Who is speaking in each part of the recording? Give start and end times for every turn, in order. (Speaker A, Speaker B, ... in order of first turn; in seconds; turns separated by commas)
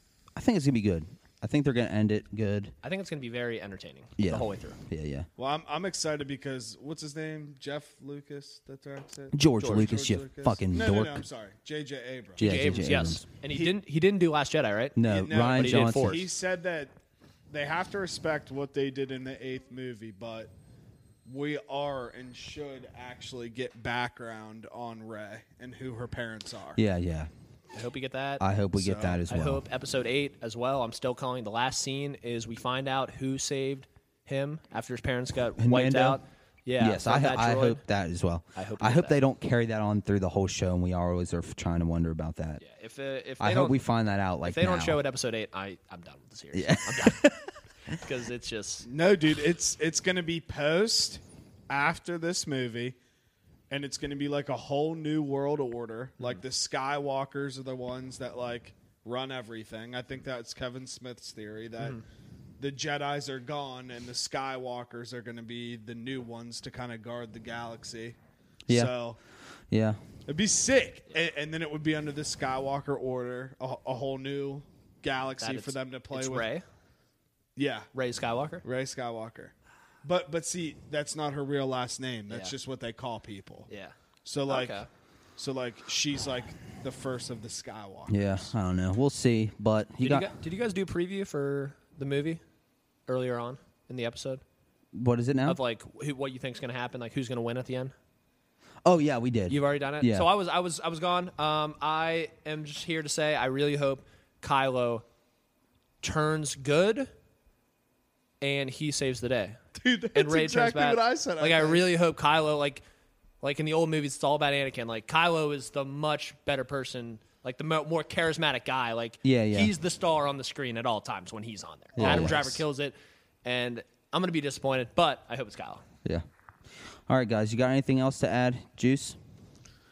Speaker A: 0.4-2.7, Speaker B: 2.8-4.8, Speaker A: 4.2-5.3, Speaker C: 5.4-12.7, Speaker A: 9.3-11.2, Speaker B: 9.6-9.9, Speaker B: 12.4-15.0, Speaker A: 12.4-13.2, Speaker C: 13.5-13.8, Speaker A: 14.9-16.2, Speaker C: 15.0-16.9, Speaker B: 15.5-16.3, Speaker C: 17.5-20.5, Speaker C: 21.2-26.8, Speaker A: 26.8-27.3, Speaker B: 27.7-28.4, Speaker A: 28.4-29.6, Speaker C: 28.7-29.2, Speaker B: 29.3-37.8, Speaker A: 35.6-36.2, Speaker A: 36.8-42.6, Speaker B: 38.5-39.1, Speaker B: 42.6-43.8, Speaker A: 43.4-45.0, Speaker B: 44.4-47.3, Speaker A: 46.5-47.4, Speaker B: 47.9-48.9, Speaker C: 48.8-53.0, Speaker C: 53.7-62.0, Speaker C: 62.6-68.2, Speaker A: 68.7-68.9, Speaker C: 68.7-69.2, Speaker A: 69.7-70.0, Speaker C: 70.3-76.5, Speaker B: 75.4-76.6, Speaker C: 77.5-77.9, Speaker B: 77.9-78.6, Speaker C: 78.6-79.5, Speaker C: 80.0-83.7, Speaker B: 82.3-82.5, Speaker B: 83.7-83.9, Speaker C: 84.2-84.9, Speaker B: 84.5-84.9, Speaker C: 85.4-88.5, Speaker A: 88.1-90.3, Speaker B: 90.0-92.4, Speaker B: 93.1-94.4, Speaker A: 94.9-95.6, Speaker B: 95.5-97.9, Speaker A: 98.8-100.3, Speaker B: 99.5-105.0, Speaker B: 106.0-107.1, Speaker B: 108.4-109.6, Speaker C: 109.7-111.8, Speaker B: 110.1-112.8, Speaker B: 113.4-125.8, Speaker A: 119.2-119.7, Speaker A: 122.0-122.6, Speaker C: 122.0-122.4, Speaker A: 127.1-129.2